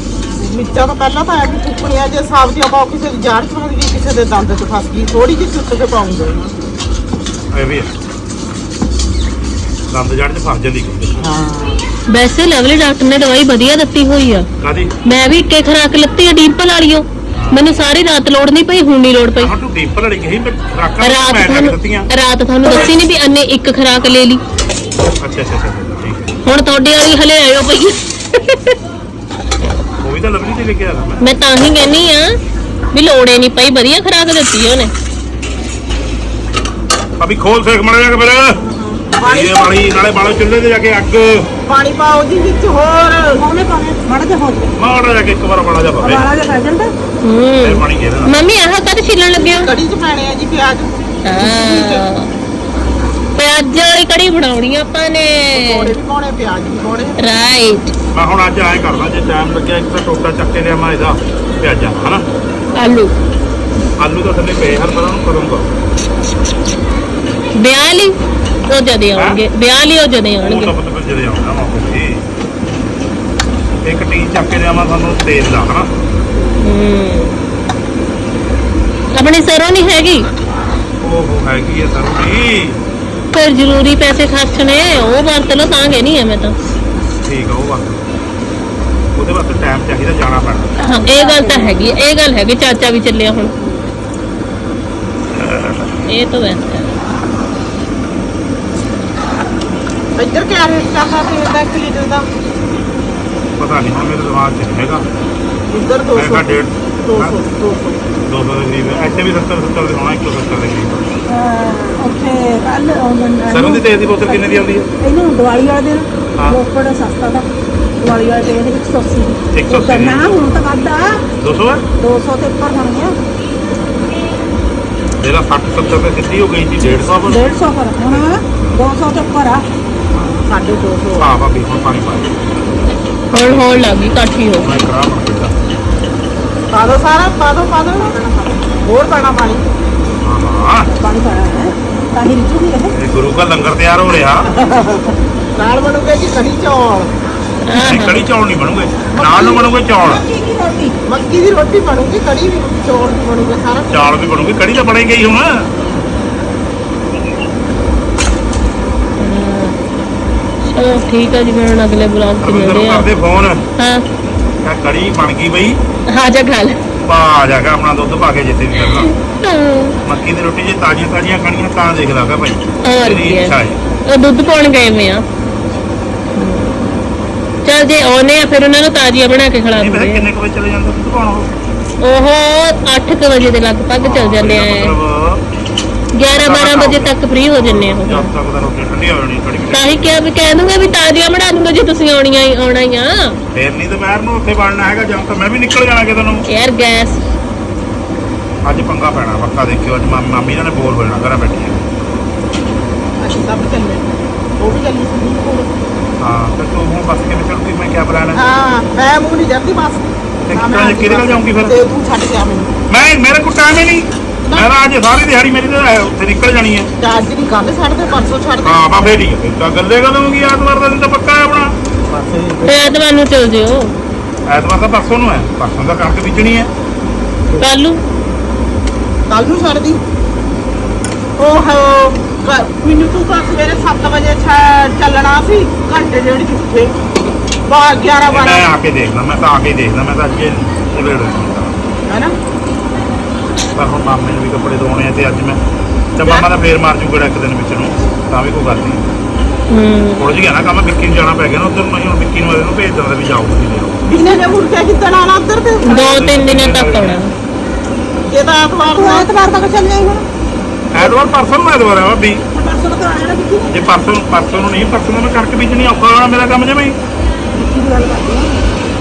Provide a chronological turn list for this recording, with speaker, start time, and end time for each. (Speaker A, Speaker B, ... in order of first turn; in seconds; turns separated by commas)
Speaker A: 0.4-6.5, Speaker B: 7.5-7.9, Speaker B: 9.9-11.2, Speaker A: 11.2-11.8, Speaker C: 12.1-14.5, Speaker B: 14.6-14.9, Speaker C: 15.1-19.5, Speaker B: 17.3-17.6, Speaker B: 19.4-22.1, Speaker C: 21.0-24.4, Speaker B: 25.2-26.3, Speaker C: 26.4-28.8, Speaker B: 30.0-31.2, Speaker C: 31.2-32.4, Speaker C: 32.9-34.9, Speaker B: 37.2-38.6, Speaker A: 38.8-40.0, Speaker B: 39.2-41.5, Speaker A: 41.7-43.4, Speaker D: 43.4-44.7, Speaker B: 44.8-46.3, Speaker D: 46.0-46.9, Speaker C: 47.2-49.7, Speaker B: 47.6-48.3, Speaker A: 49.3-51.1, Speaker C: 51.2-52.3, Speaker C: 53.4-55.9, Speaker A: 55.5-57.2, Speaker C: 57.2-57.9, Speaker B: 58.1-62.2, Speaker C: 62.8-63.1, Speaker B: 64.0-65.7, Speaker C: 67.5-68.1, Speaker C: 68.7-70.7, Speaker B: 69.1-69.4, Speaker B: 70.4-72.2, Speaker B: 73.8-75.9, Speaker C: 76.5-77.4, Speaker C: 79.2-80.2, Speaker B: 81.0-82.8, Speaker C: 83.3-86.5, Speaker B: 87.2-88.0, Speaker B: 89.1-90.8, Speaker C: 90.8-93.5, Speaker D: 91.0-91.9, Speaker B: 95.3-95.9, Speaker C: 96.1-97.0, Speaker A: 100.2-102.3, Speaker B: 103.6-105.0, Speaker A: 105.7-108.0, Speaker B: 106.1-107.4, Speaker B: 108.2-111.1, Speaker D: 111.3-117.5, Speaker B: 113.5-114.9, Speaker B: 116.3-116.6, Speaker D: 118.0-121.2, Speaker B: 119.5-120.6, Speaker B: 121.4-121.8, Speaker D: 122.0-123.2, Speaker B: 125.2-127.5, Speaker D: 127.2-129.6, Speaker B: 128.0-128.2, Speaker A: 130.1-131.3, Speaker B: 131.2-132.6, Speaker C: 133.3-134.7, Speaker B: 133.4-133.9, Speaker B: 134.6-135.6, Speaker A: 136.7-139.7, Speaker B: 140.2-140.9, Speaker D: 140.9-142.9, Speaker B: 142.9-144.5, Speaker A: 145.6-147.1, Speaker C: 147.7-148.2, Speaker B: 147.7-150.2, Speaker A: 149.1-149.7, Speaker D: 150.0-150.9, Speaker A: 151.1-153.9, Speaker B: 153.9-155.7, Speaker C: 159.2-159.8, Speaker C: 160.6-163.1, Speaker B: 162.4-163.6, Speaker C: 163.8-164.0, Speaker B: 164.6-165.8, Speaker C: 166.1-166.8, Speaker B: 167.1-169.1, Speaker C: 168.8-169.9, Speaker B: 170.0-173.8, Speaker C: 172.8-173.5, Speaker C: 174.1-175.2, Speaker C: 176.3-176.9, Speaker C: 177.6-180.2, Speaker B: 179.8-181.5, Speaker C: 182.0-184.9, Speaker B: 184.0-185.4, Speaker C: 186.2-188.3, Speaker B: 186.4-190.2, Speaker C: 189.7-193.4, Speaker B: 193.5-196.4, Speaker C: 196.5-197.2, Speaker B: 198.6-201.8, Speaker A: 203.2-204.1, Speaker A: 204.6-205.7, Speaker B: 206.2-208.4, Speaker A: 208.3-212.7, Speaker B: 210.4-211.9, Speaker B: 212.9-216.9, Speaker A: 217.0-219.2, Speaker B: 218.6-221.7, Speaker A: 222.1-222.9, Speaker C: 222.7-223.9, Speaker B: 224.5-226.7, Speaker C: 227.6-228.0, Speaker A: 229.3-230.0, Speaker A: 231.4-237.0, Speaker A: 237.7-238.7, Speaker B: 238.3-241.8, Speaker A: 242.1-242.3, Speaker B: 243.7-245.6, Speaker B: 246.1-249.1, Speaker C: 249.7-250.3, Speaker B: 250.2-254.0, Speaker A: 254.1-256.2, Speaker C: 255.8-257.3, Speaker B: 255.9-257.2, Speaker A: 258.3-259.3, Speaker D: 258.8-260.2, Speaker B: 260.9-262.4, Speaker D: 262.5-263.8, Speaker B: 263.7-266.9, Speaker D: 267.5-268.6